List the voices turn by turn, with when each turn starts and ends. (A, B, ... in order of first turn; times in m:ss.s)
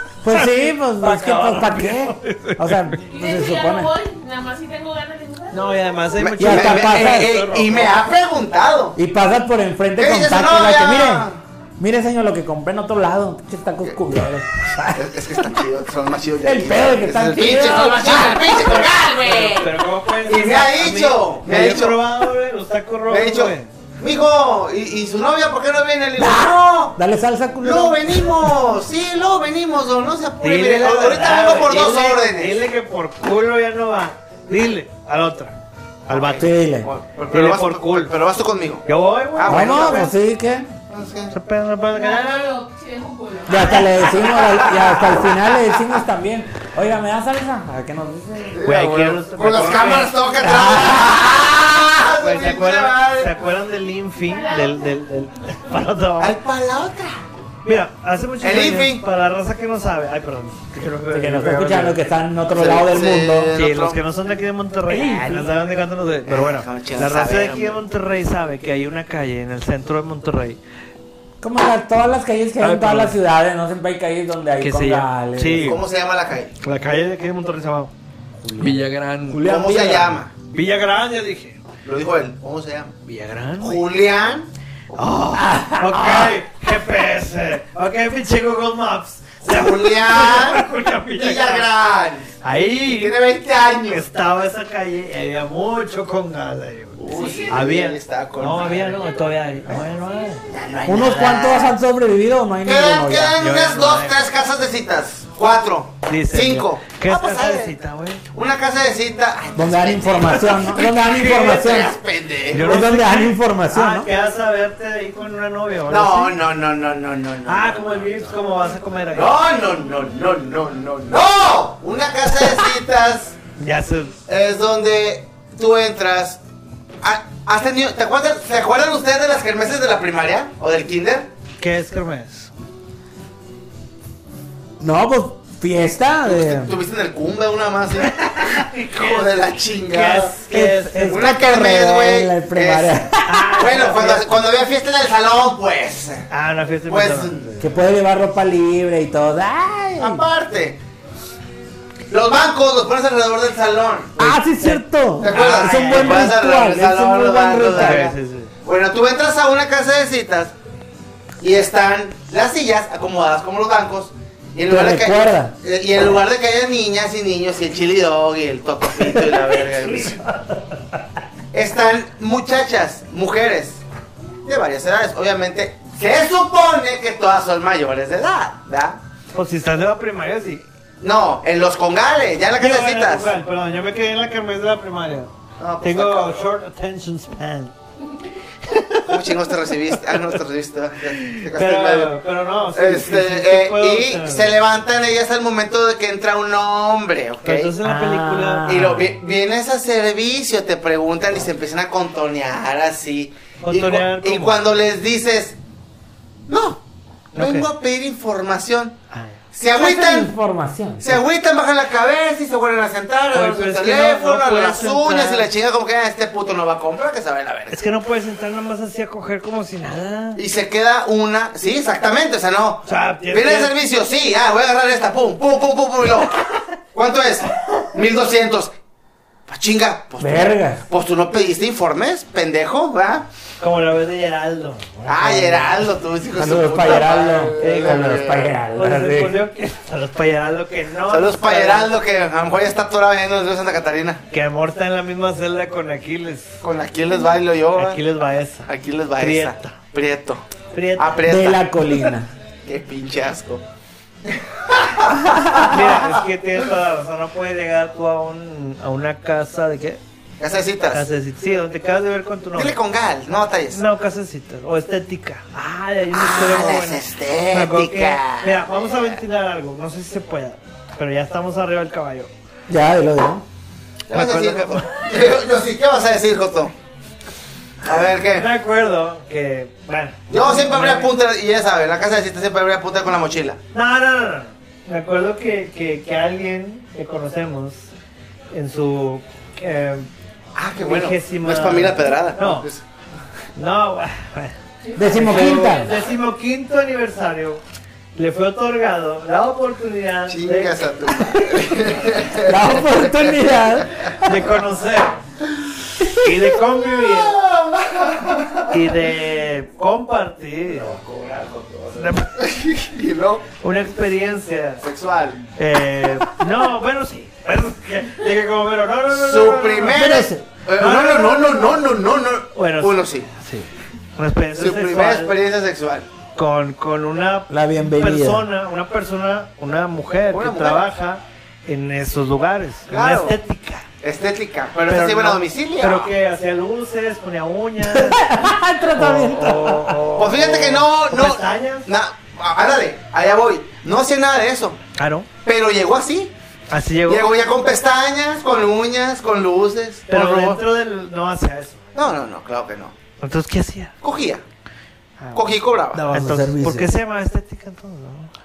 0:00.2-0:03.9 A
0:00.3-0:03.0 B
0:03.1-0:05.8 C
0:05.5-0:08.0 B
0:06.2-0:09.0 D
0:06.4-0:07.3 A
0:09.0-0:11.3 A
0:10.0-0:11.4 D
0:11.8-0:15.3 A
0:14.9-0:19.7 D
0:16.4-0:18.3 A
0:17.8-0:19.1 C
0:18.3-0:23.7 B
0:20.2-0:22.0 D
0:23.1-0:27.0 D
0:26.2-0:28.5 A
0:27.6-0:32.6 D
0:30.4-0:35.5 B
0:36.1-0:36.5 B
0:36.1-0:40.2 D
0:36.4-0:36.9 A
0:37.3-0:38.2 B
0:38.9-0:40.1 B
0:39.5-0:40.7 A
0:40.9-0:41.4 D
0:41.3-0:42.6 B
0:41.9-0:43.9 C
0:43.5-0:48.6 A
0:44.0-0:46.0 D
0:48.5-0:53.3 D
0:48.6-0:50.2 B
0:50.4-0:51.2 A
0:52.2-0:56.4 B
0:54.3-0:54.8 C
0:56.2-0:57.2 D
0:57.6-1:02.0 B
0:58.4-0:59.0 D
1:01.1-1:03.5 A
1:02.5-1:04.0 D
1:03.5-1:10.6 B
1:04.9-1:05.5 A
1:06.3-1:07.8 D
1:11.4-1:15.8 A
1:12.6-1:13.2 B
1:14.6-1:15.8 B
1:15.6-1:16.5 D
1:16.6-1:17.9 B
1:18.5-1:18.8 A
1:18.5-1:19.4 B
1:19.3-1:20.2 A
1:19.4-1:20.3 D
1:20.5-1:21.6 B
1:21.8-1:22.9 D
1:23.1-1:23.8 B
1:23.6-1:24.5 D
1:24.9-1:31.7 B
1:25.3-1:26.4 A
1:29.4-1:32.3 D
1:32.4-1:33.2 B
1:32.9-1:34.0 D
1:33.8-1:40.4 B
1:37.0-1:39.1 D
1:37.1-1:37.5 C
1:40.5-1:41.8 D
1:40.9-1:43.4 A
1:42.6-1:47.8 D
1:43.4-1:44.2 B
1:46.1-1:48.2 B
1:48.3-1:52.7 D
1:49.6-1:52.0 A
1:51.2-1:51.6 B
1:52.5-1:56.4 B
1:52.5-1:54.1 A
1:55.9-1:58.0 D
1:57.5-1:59.4 B
1:59.1-2:03.4 D
2:03.6-2:04.2 B
2:04.3-2:06.4 D
2:07.0-2:11.3 D
2:11.6-2:12.5 B
2:14.8-2:16.7 A
2:16.2-2:20.3 D
2:18.0-2:21.4 B
2:20.5-2:23.5 A
2:21.1-2:26.3 D
2:23.2-2:24.3 B
2:26.3-2:27.7 B
2:26.9-2:27.4 D
2:27.6-2:30.2 A
2:30.0-2:30.8 D
2:32.1-2:34.3 D
2:34.2-2:38.1 A
2:34.2-2:36.3 B
2:35.2-2:40.5 D
2:37.7-2:38.5 B
2:41.4-2:50.2 D
2:44.6-2:45.6 A
2:51.5-2:53.8 D
2:54.4-2:59.0 D
2:59.3-3:00.6 B
3:01.0-3:03.4 D
3:02.6-3:05.3 B
3:05.6-3:06.4 D
3:05.8-3:07.8 B
3:08.6-3:09.3 B
3:09.1-3:12.2 D
3:10.1-3:10.3 B
3:11.0-3:14.6 B
3:12.7-3:17.7 D
3:17.4-3:18.9 B
3:17.8-3:19.1 A
3:18.7-3:25.6 D
3:23.6-3:24.6 B
3:26.5-3:26.8 D
3:27.3-3:29.0 D
3:27.4-3:27.7 B
3:29.1-3:29.4 B
3:29.5-3:30.3 D
3:29.7-3:31.2 A
3:31.0-3:37.8 D
3:33.3-3:35.5 B
3:37.7-3:40.4 B
3:40.4-3:46.4 D
3:42.8-3:43.7 B
3:46.9-3:48.8 D
3:49.5-3:53.3 D
3:50.2-3:50.8 A
3:53.6-3:55.8 B
3:55.1-3:58.6 D
3:56.4-3:59.4 A
3:57.6-3:58.2 B
3:58.7-4:01.9 B
4:01.1-4:04.2 D
4:04.3-4:06.6 B
4:06.6-4:08.0 D
4:07.7-4:09.8 B
4:08.7-4:10.4 D
4:10.7-4:11.3 B
4:11.0-4:11.6 D
4:11.2-4:12.3 A
4:12.6-4:13.6 D
4:14.2-4:16.2 D
4:15.2-4:15.7 A
4:15.7-4:20.0 B
4:20.4-4:21.1 D
4:20.9-4:22.8 B
4:22.6-4:23.8 D
4:23.7-4:32.3 B
4:26.1-4:29.2 D
4:32.7-4:33.4 A
4:34.1-4:36.7 D
4:34.1-4:35.1 B
4:37.8-4:38.5 D
4:38.3-4:41.1 B
4:40.3-4:43.6 D
4:43.7-4:47.9 B
4:48.5-4:50.1 B
4:50.6-4:52.8 D
4:50.8-4:52.7 B
4:53.6-4:54.6 B
4:54.9-4:55.7 C
4:55.0-4:55.9 A
4:55.1-4:57.6 B
4:58.2-5:00.9 B
5:00.3-5:03.8 D
5:02.4-5:04.4 A
5:04.2-5:05.2 B
5:06.1-5:07.4 B
5:07.0-5:08.8 D
5:08.7-5:11.0 B
5:11.5-5:11.8 A
5:11.9-5:12.4 B
5:12.4-5:13.5 D
5:13.6-5:14.8 B
5:14.8-5:15.4 D
5:15.6-5:20.2 B
5:19.1-5:23.3 D
5:19.9-5:20.5 A
5:20.8-5:21.8 B
5:22.6-5:25.3 B
5:24.6-5:26.1 D
5:26.4-5:33.9 B
5:27.5-5:28.5 A
5:30.3-5:30.8 D
5:32.9-5:33.4 D
5:34.0-5:36.1 D
5:34.9-5:41.9 B
5:37.9-5:40.0 A
5:40.2-5:44.8 D
5:45.0-5:45.3 B
5:45.4-5:46.3 D
5:46.7-5:47.3 B
5:47.1-5:50.6 D
5:50.1-5:52.1 B
5:52.0-5:53.0 D
5:53.2-5:53.9 B
5:54.0-5:54.4 D
5:55.2-5:58.3 B
5:55.3-5:56.0 D
5:55.9-5:56.9 A